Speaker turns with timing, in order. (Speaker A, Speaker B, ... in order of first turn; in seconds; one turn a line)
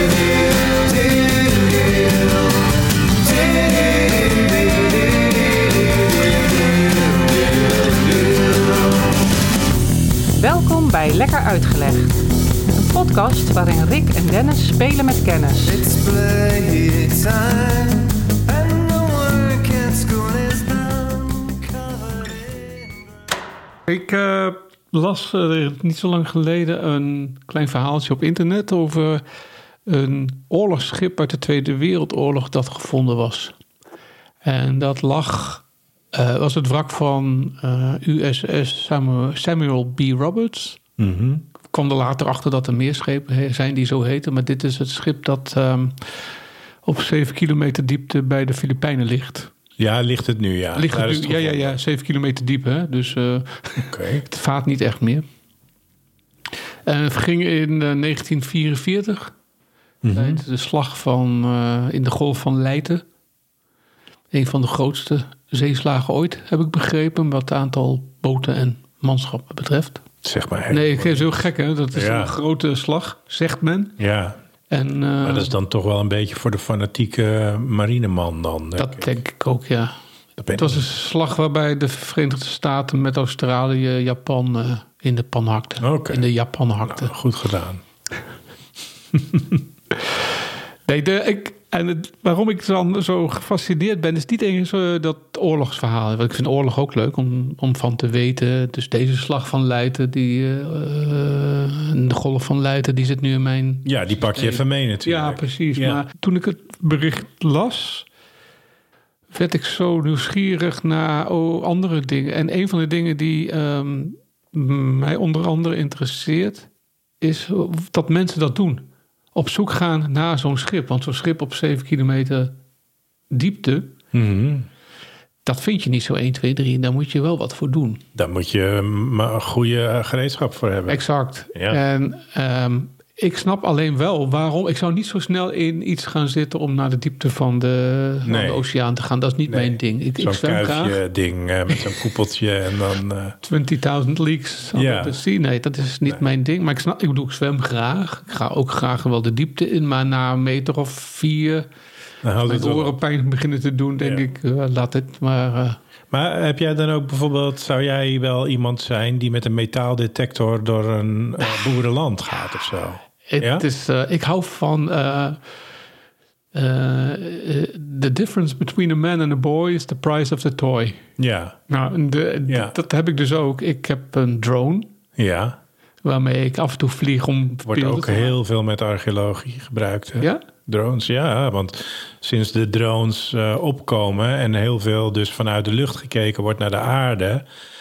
Speaker A: 0.8-2.6
Speaker A: 3.2-9.2
Speaker B: 10.4-12.2
Speaker B: 12.7-15.8
Speaker A: 15.7-23.3
Speaker C: 23.9-29.2
Speaker C: 29.9-33.6
Speaker C: 34.4-40.8
Speaker D: 41.0-41.4
Speaker C: 41.7-49.5
Speaker D: 49.8-51.8
Speaker C: 50.8-55.2
Speaker D: 53.9-54.2
Speaker C: 56.9-59.3
Speaker D: 60.0-60.4
Speaker C: 60.1-63.0
Speaker C: 64.3-70.0
Speaker D: 70.2-71.3
Speaker C: 70.7-74.0
Speaker D: 71.9-72.3
Speaker D: 74.0-74.4
Speaker C: 74.7-75.5
Speaker D: 75.2-79.2
Speaker C: 78.8-80.0
Speaker D: 80.4-80.8
Speaker C: 80.5-87.1
Speaker D: 85.8-86.2
Speaker D: 86.8-87.8
Speaker C: 90.9-108.1
Speaker D: 103.8-106.0
Speaker C: 109.3-116.7
Speaker C: 117.2-122.6
Speaker C: 123.3-123.9
Speaker D: 124.1-124.7
Speaker C: 125.5-128.0
Speaker D: 128.2-131.0
Speaker C: 130.9-141.0
Speaker D: 131.5-131.8
Speaker D: 138.2-138.6
Speaker D: 139.5-143.4
Speaker C: 143.4-151.7
Speaker D: 144.8-145.2
Speaker D: 152.2-152.9
Speaker C: 152.4-155.8
Speaker D: 156.1-163.7
Speaker C: 163.3-165.4
Speaker C: 166.5-171.0
Speaker D: 171.2-171.6
Speaker C: 171.7-174.9
Speaker D: 172.5-172.7
Speaker D: 175.2-175.6
Speaker C: 176.0-178.4
Speaker D: 177.7-187.4